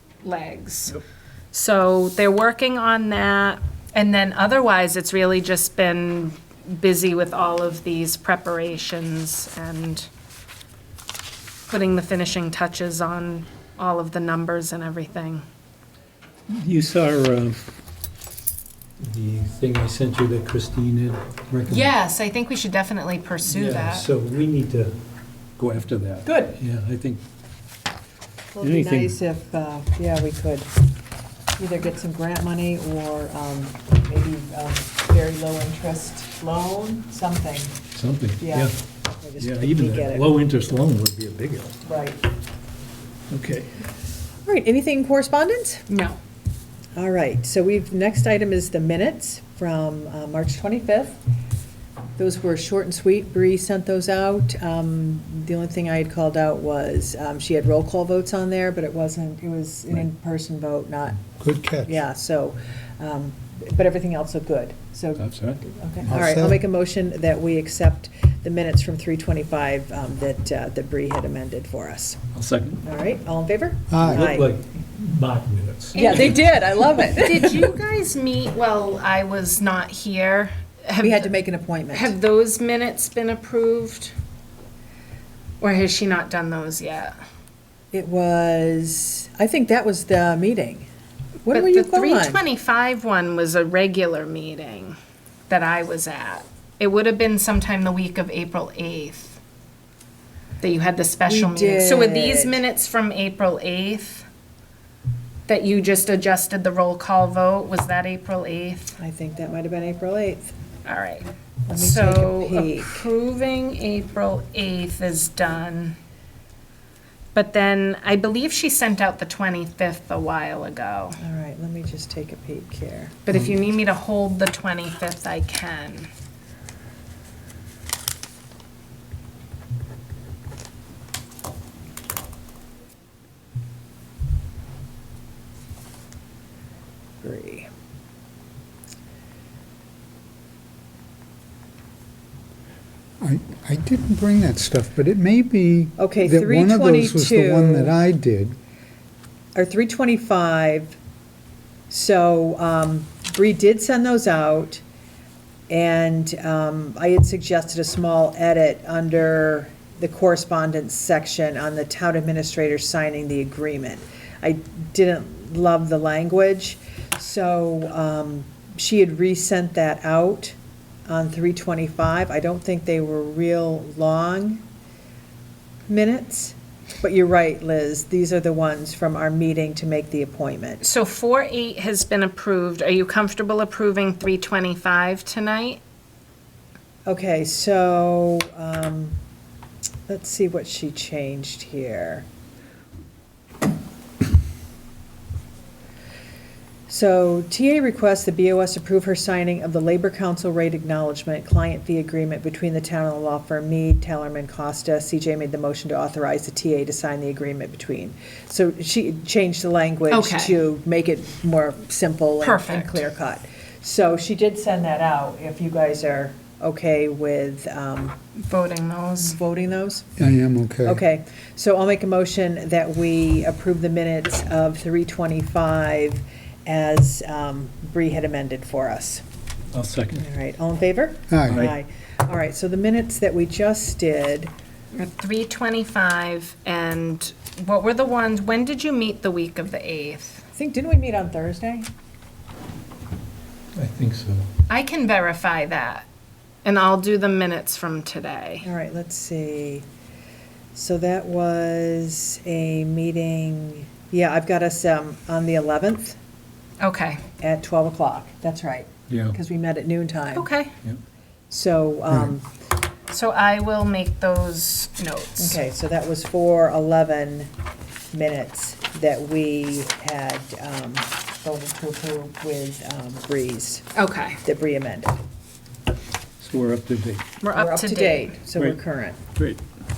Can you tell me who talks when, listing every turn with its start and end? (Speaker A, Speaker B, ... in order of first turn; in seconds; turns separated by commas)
Speaker A: 0.2-1.0, Speaker A: 1.5-10.1, Speaker A: 11.7-15.4, Speaker B: 16.5-17.7, Speaker B: 19.0-21.9, Speaker A: 21.7-24.1, Speaker B: 23.5-25.0, Speaker B: 25.6-27.2, Speaker C: 26.3-26.6, Speaker C: 28.5-30.7, Speaker B: 28.6-29.1, Speaker C: 31.6-37.8, Speaker B: 37.9-38.8, Speaker C: 38.4-40.3, Speaker B: 39.4-41.8, Speaker C: 41.9-42.2, Speaker B: 43.3-43.7, Speaker C: 44.5-45.9, Speaker A: 45.9-46.2, Speaker C: 47.0-51.2, Speaker C: 52.2-61.2, Speaker D: 61.4-62.0, Speaker C: 61.9-72.2, Speaker B: 65.2-65.6, Speaker D: 66.1-66.6, Speaker B: 72.3-72.8, Speaker C: 72.8-74.5, Speaker D: 73.9-74.3, Speaker B: 74.0-76.4, Speaker C: 75.9-77.6, Speaker A: 76.0-76.4, Speaker A: 77.1-81.3, Speaker C: 81.0-82.2, Speaker A: 81.9-84.1, Speaker A: 85.6-87.2, Speaker C: 87.9-90.9, Speaker C: 91.5-92.4, Speaker A: 91.5-95.0, Speaker A: 95.5-99.4, Speaker A: 100.6-104.3, Speaker C: 101.3-102.6, Speaker A: 105.5-109.0, Speaker C: 109.0-110.6, Speaker A: 110.8-116.0, Speaker C: 111.7-113.0, Speaker A: 117.3-121.2, Speaker C: 121.2-123.2, Speaker A: 123.3-126.1, Speaker C: 137.2-137.7, Speaker D: 143.2-148.6, Speaker C: 146.0-147.9, Speaker C: 149.6-151.0, Speaker C: 151.9-154.8, Speaker C: 155.7-170.6, Speaker C: 171.1-174.6, Speaker C: 175.9-180.8, Speaker A: 180.8-185.8, Speaker C: 187.1-189.2, Speaker C: 190.1-192.2, Speaker C: 196.9-218.2, Speaker A: 210.1-210.6, Speaker A: 212.4-213.0, Speaker A: 218.4-219.4, Speaker C: 219.2-220.2, Speaker D: 220.2-221.0, Speaker C: 220.8-229.2, Speaker B: 229.7-230.2, Speaker C: 230.2-234.5, Speaker D: 231.3-231.7, Speaker B: 231.5-231.7, Speaker A: 234.9-240.5, Speaker C: 240.6-241.9, Speaker B: 243.8-244.5, Speaker A: 244.7-246.1, Speaker A: 246.7-248.7, Speaker C: 248.6-249.8, Speaker C: 250.7-256.2, Speaker A: 256.8-257.2, Speaker C: 257.4-260.5, Speaker B: 259.1-259.4, Speaker A: 260.4-260.7, Speaker C: 261.5-262.5, Speaker A: 263.1-265.6, Speaker C: 265.4-267.5, Speaker C: 268.1-273.9, Speaker A: 273.9-274.4, Speaker C: 274.4-275.2, Speaker B: 276.4-277.3, Speaker A: 277.4-278.3, Speaker C: 277.5-279.2